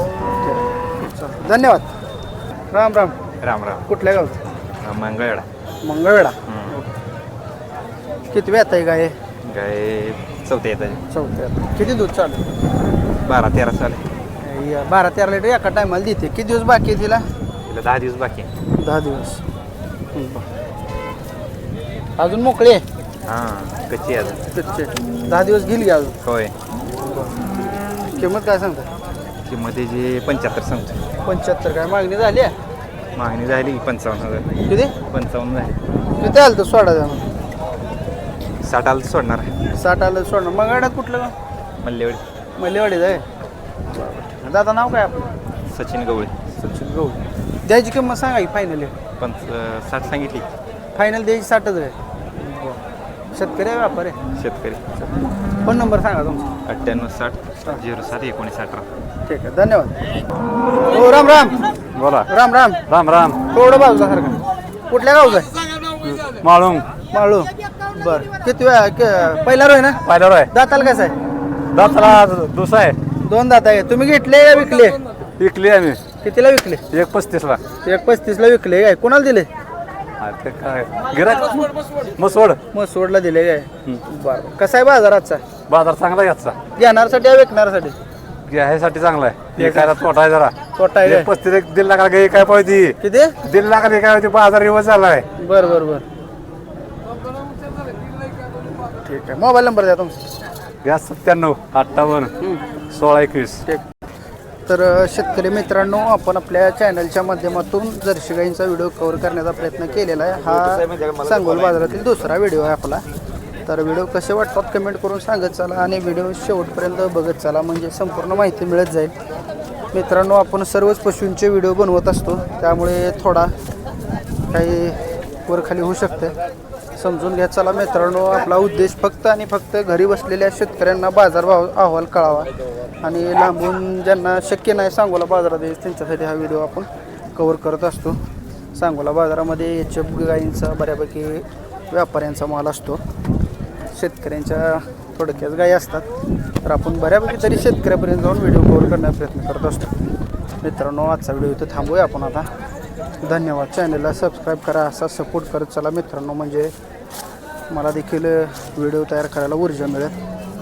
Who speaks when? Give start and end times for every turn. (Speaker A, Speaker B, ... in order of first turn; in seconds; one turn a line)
Speaker A: 0.4-1.9
Speaker A: 2.7-3.1
Speaker B: 3.4-3.8
Speaker A: 3.9-4.4
Speaker B: 4.5-5.5
Speaker A: 5.8-6.8
Speaker B: 6.5-6.8
Speaker A: 8.3-9.2
Speaker B: 9.5-11.0
Speaker A: 11.1-12.4
Speaker B: 13.2-14.0
Speaker A: 14.4-17.2
Speaker B: 17.7-18.5
Speaker A: 18.8-19.4
Speaker A: 20.1-20.4
Speaker A: 22.2-22.8
Speaker B: 23.3-24.4
Speaker A: 24.5-26.1
Speaker B: 26.2-26.5
Speaker A: 28.1-28.9
Speaker B: 29.4-31.1
Speaker A: 31.2-32.5
Speaker B: 33.2-35.8
Speaker A: 34.7-34.9
Speaker A: 36.2-37.2
Speaker B: 38.6-39.5
Speaker A: 39.8-41.3
Speaker B: 41.8-42.2
Speaker A: 42.6-43.2
Speaker A: 44.1-45.3
Speaker B: 45.7-46.5
Speaker A: 46.6-48.9
Speaker B: 49.2-50.5
Speaker A: 51.0-52.8
Speaker A: 53.3-54.2
Speaker B: 54.4-55.1
Speaker A: 55.6-56.5
Speaker B: 56.7-58.9
Speaker A: 59.3-60.0
Speaker A: 60.8-61.6
Speaker C: 62.0-62.3
Speaker A: 62.3-62.8
Speaker C: 62.9-63.4
Speaker A: 63.5-65.5
Speaker C: 66.4-66.8
Speaker A: 67.1-71.2
Speaker C: 70.1-70.5
Speaker C: 71.7-73.0
Speaker A: 73.2-75.0
Speaker C: 75.4-76.0
Speaker A: 76.2-76.8
Speaker C: 76.9-77.6
Speaker A: 77.8-79.5
Speaker C: 80.2-82.6
Speaker A: 82.7-85.4
Speaker C: 85.7-86.6
Speaker A: 86.8-88.0
Speaker C: 88.5-90.5
Speaker A: 89.5-90.0
Speaker A: 90.8-91.3
Speaker C: 91.0-95.2
Speaker A: 93.0-93.3
Speaker A: 95.4-96.0
Speaker A: 99.0-100.1
Speaker C: 100.8-102.3
Speaker C: 102.9-103.6
Speaker A: 104.7-113.0
Speaker A: 113.7-119.1
Speaker A: 119.9-123.5
Speaker A: 124.5-126.3
Speaker A: 127.0-132.5
Speaker A: 133.0-138.2
Speaker A: 138.8-143.0
Speaker A: 143.9-146.1
Speaker A: 146.6-149.9
Speaker A: 150.6-152.5
Speaker A: 153.2-156.7
Speaker A: 157.7-160.1